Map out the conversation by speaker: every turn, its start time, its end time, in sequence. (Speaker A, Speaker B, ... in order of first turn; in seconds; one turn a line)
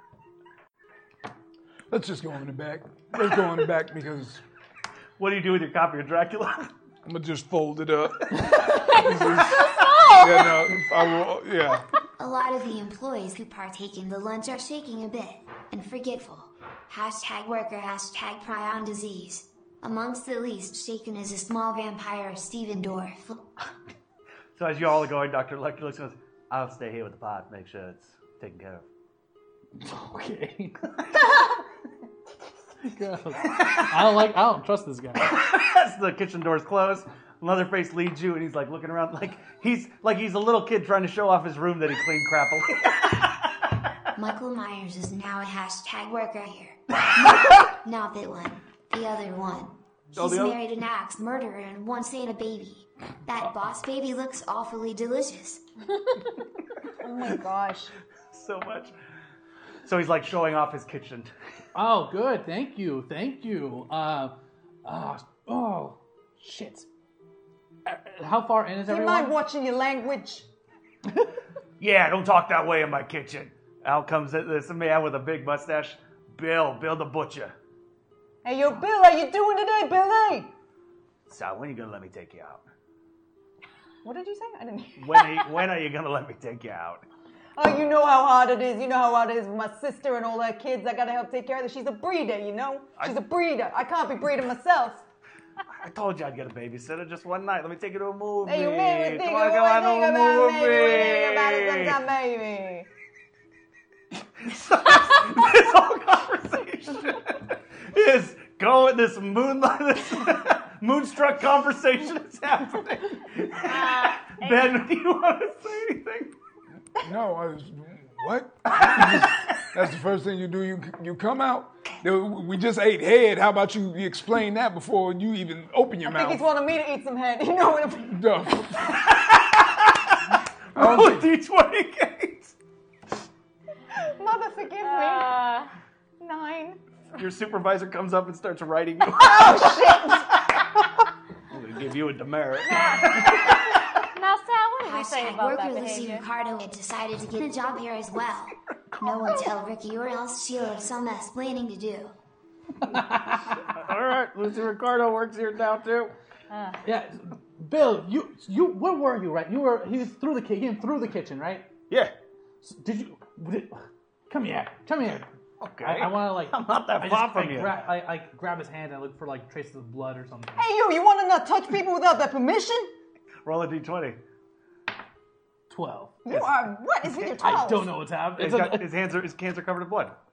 Speaker A: 1.9-4.4
Speaker B: 3.2-3.5
Speaker B: 5.2-6.7
Speaker A: 7.0-11.9
Speaker C: 9.0-10.8
Speaker D: 12.2-23.5
Speaker B: 24.6-28.9
Speaker E: 29.8-30.9
Speaker E: 32.8-35.2
Speaker B: 33.5-33.8
Speaker B: 35.2-43.3
Speaker D: 44.1-55.6
Speaker B: 50.1-50.6
Speaker F: 57.0-57.9
Speaker B: 58.3-58.9
Speaker B: 59.9-61.3
Speaker E: 61.8-66.9
Speaker E: 67.9-69.3
Speaker F: 68.9-70.5
Speaker B: 71.8-77.5
Speaker F: 78.4-80.5
Speaker B: 81.3-82.6
Speaker F: 84.0-85.5
Speaker B: 85.0-87.0
Speaker F: 87.6-95.0
Speaker B: 95.8-102.0
Speaker F: 98.5-102.9
Speaker B: 104.4-116.3
Speaker C: 113.6-114.8
Speaker A: 117.0-126.5
Speaker B: 118.8-119.3
Speaker F: 126.0-128.3
Speaker A: 128.1-129.0
Speaker B: 128.8-130.2
Speaker B: 130.7-132.5
Speaker A: 130.8-131.3
Speaker F: 133.9-135.4
Speaker C: 134.8-135.7
Speaker F: 136.2-136.8
Speaker B: 137.2-140.6
Speaker F: 139.1-140.3
Speaker B: 141.5-143.8
Speaker C: 142.7-146.3
Speaker D: 144.8-152.1
Speaker E: 152.8-153.7
Speaker B: 153.7-156.1
Speaker C: 156.5-156.8
Speaker E: 156.8-161.7
Speaker E: 162.6-165.3
Speaker B: 165.6-167.8
Speaker E: 165.8-170.7
Speaker F: 170.6-172.9
Speaker B: 173.4-174.2
Speaker E: 175.7-176.4
Speaker F: 176.2-177.9
Speaker E: 177.4-178.9
Speaker B: 178.4-180.2